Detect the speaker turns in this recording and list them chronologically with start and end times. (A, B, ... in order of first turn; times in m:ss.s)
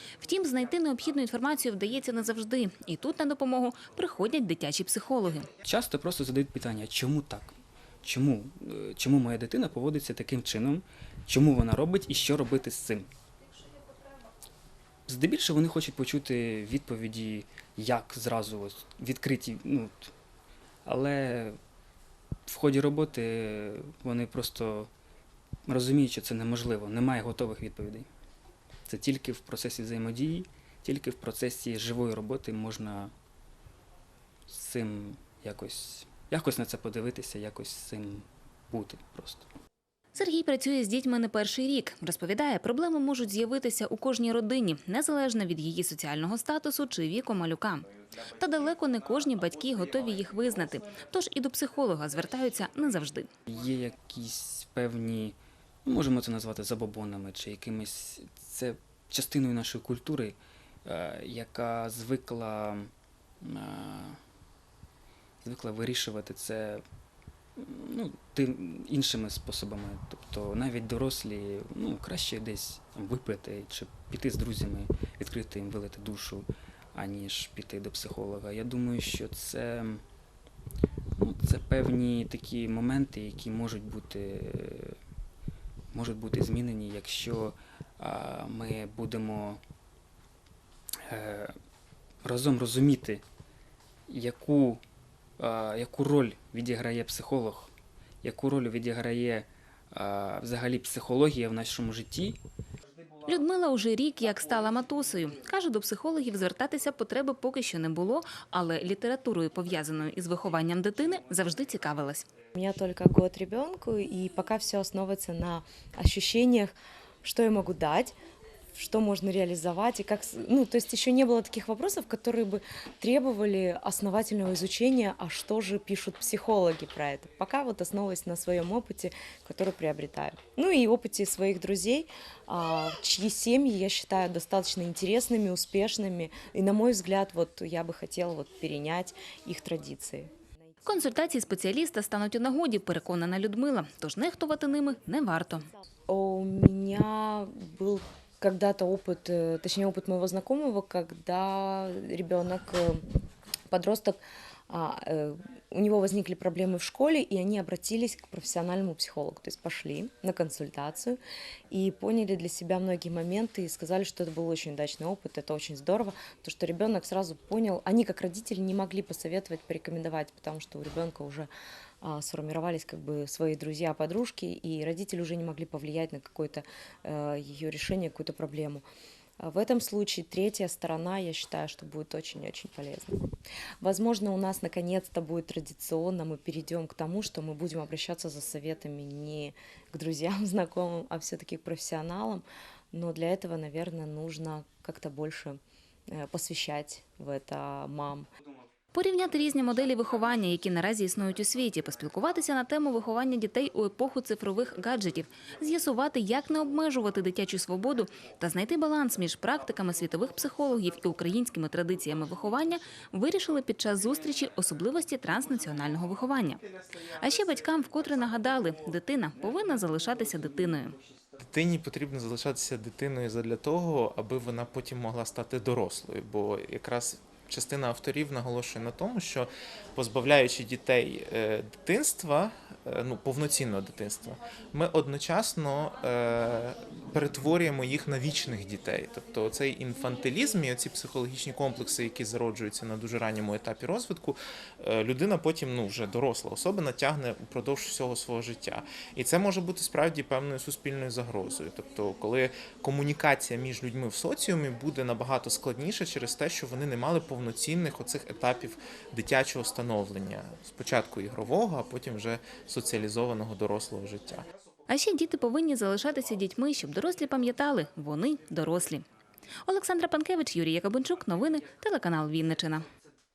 0:00.2-0:05.6 A
0:05.6-0:13.0 B
0:15.1-0:20.1 B
0:20.8-0:21.6 B
0:22.5-0:24.9 B
0:25.7-0:28.1 B
0:28.9-0:33.1 B
0:34.5-0:39.4 B
0:40.1-0:53.3 A
0:53.5-0:55.3 B
0:55.8-1:02.9 B
1:03.4-1:04.2 B
1:05.4-1:06.8 B
1:07.6-1:20.0 B
1:21.2-1:25.0 B
1:25.9-1:29.6 B
1:31.1-1:31.5 B
1:32.2-1:33.2 B
1:34.1-1:34.8 B
1:35.4-1:37.7 B
1:38.2-1:42.4 B
1:43.2-1:52.2 A
1:52.5-1:58.1 C
1:58.7-2:20.3 C
2:20.8-2:25.6 A
2:26.1-2:33.0 C
2:33.7-2:41.2 C
2:41.7-2:51.5 C
2:52.0-2:58.8 C
2:59.4-3:03.3 C
3:03.8-3:15.6 C
3:16.1-3:18.3 C
3:18.9-3:36.6 A
3:37.2-3:40.9 A
3:41.4-4:24.4 D
4:24.9-4:29.0 A
4:29.6-4:32.8 A